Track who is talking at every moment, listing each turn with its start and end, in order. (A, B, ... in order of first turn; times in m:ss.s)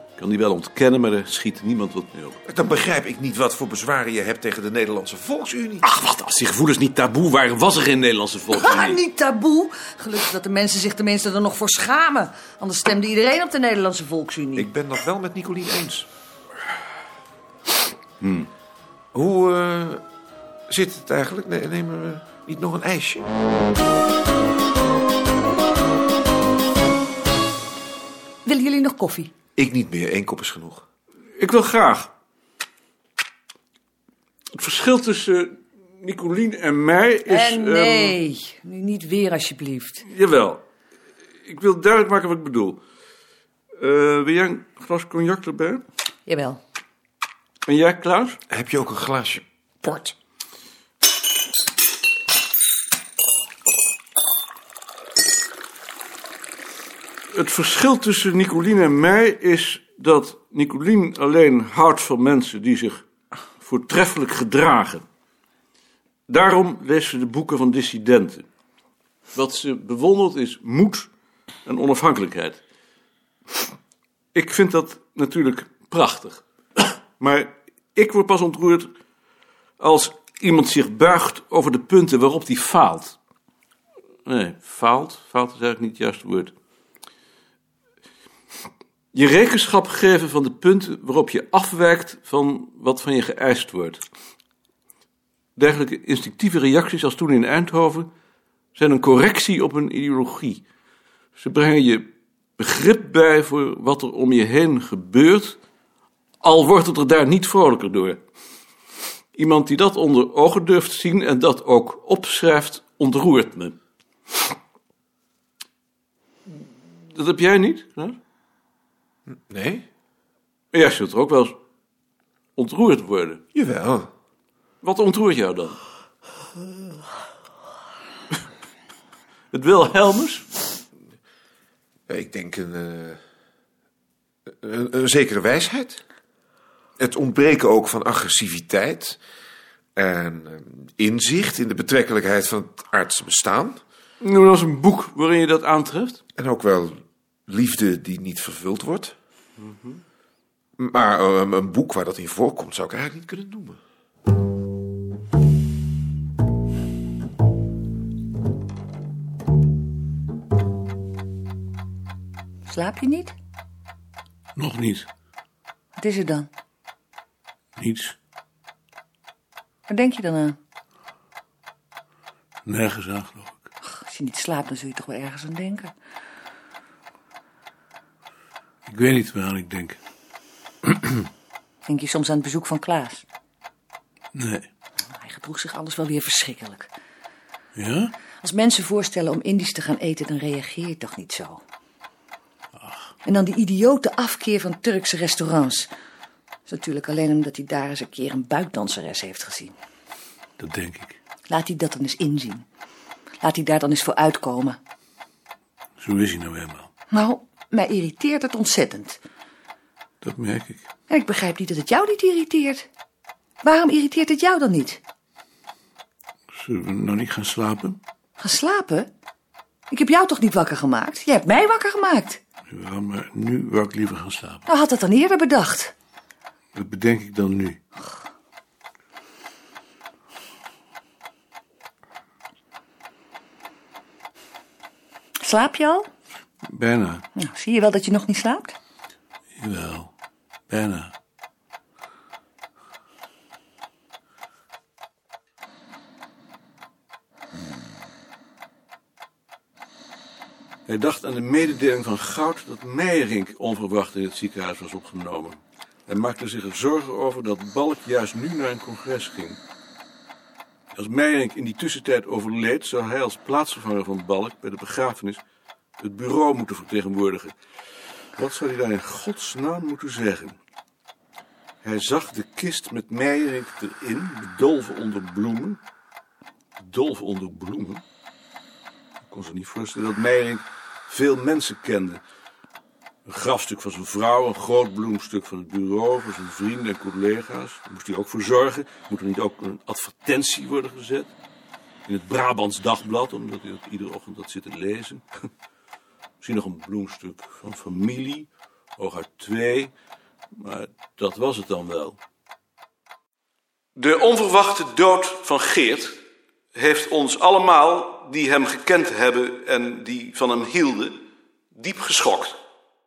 0:00.2-0:02.4 A
0:02.4-0:05.8 B
0:05.8-0:09.0 A
0:08.5-0:14.7 C
0:14.6-0:16.1 B
0:18.2-0:18.5 A
0:19.1-0:20.0 B
0:20.7-0:23.3 B
0:28.4-0:29.3 C
0:29.6-0:30.8 B
0:31.4-0:32.1 A
0:34.5-0:38.2 A
0:37.3-0:40.0 C
0:40.0-0:40.6 A
0:41.4-0:42.8 A
0:43.8-0:45.8 A
0:46.2-0:46.6 C
0:47.6-0:48.4 A
0:48.5-0:50.1 B
0:57.3-1:03.0 A
1:03.6-1:05.0 A
1:06.3-1:08.4 A
1:09.3-1:11.1 A
1:11.6-1:12.6 A
1:14.3-1:18.9 A
1:19.8-1:23.2 A
1:24.2-1:26.5 A
1:29.1-1:34.0 A
1:35.6-1:38.1 A
1:38.7-1:40.6 A
1:41.4-1:45.6 A
1:46.4-1:48.2 A
1:49.4-1:53.8 A
1:57.1-1:58.2 A
1:59.4-1:59.8 B
2:00.7-2:01.5 A
2:02.6-2:03.4 A
2:03.5-2:04.1 B
2:04.8-2:05.8 A
2:09.5-2:10.4 A
2:12.1-2:13.2 B
2:14.5-2:16.0 B
2:17.0-2:19.2 B
2:20.0-2:23.8 B
2:24.2-2:26.2 A
2:26.4-2:29.2 B
2:29.6-2:30.0 A
2:30.8-2:33.8 B
2:42.6-2:43.3 C
2:44.6-2:45.1 A
2:46.0-2:46.5 C
2:47.8-2:48.2 A
2:49.9-2:50.6 C
2:52.6-2:53.6 A
2:53.8-2:55.9 C
2:58.9-3:00.0 A
3:00.9-3:01.2 A
3:01.8-3:03.2 C
3:04.3-3:04.7 A
3:05.1-3:06.9 C
3:07.8-3:08.1 A
3:08.4-3:11.6 C
3:13.2-3:15.9 C
3:16.7-3:19.7 C
3:20.6-3:21.2 A
3:21.5-3:22.6 C
3:23.4-3:24.8 C
3:26.0-3:26.9 A
3:27.1-3:29.2 C
3:30.2-3:30.8 A
3:31.1-3:32.9 C
3:33.6-3:35.0 C
3:36.5-3:38.0 A
3:38.4-3:39.1 C
3:39.9-3:42.4 C
3:42.7-3:44.7 A
3:44.7-3:45.9 C
3:46.7-3:47.8 A
3:55.4-3:56.1 C
3:56.6-3:57.2 A
3:57.4-3:58.8 C
3:59.6-4:00.1 A
4:00.7-4:01.1 A
4:10.9-4:19.6 A
4:20.9-4:25.4 A
4:26.0-4:27.6 A
4:28.4-4:30.6 A
4:31.8-4:35.8 A
4:36.8-4:38.0 A
4:39.3-4:42.2 A
4:43.2-4:51.3 A
4:52.0-4:55.2 A
4:56.4-4:59.9 A
5:00.5-5:02.2 A
5:04.0-5:06.2 A
5:06.7-5:11.2 A
5:11.7-5:12.6 A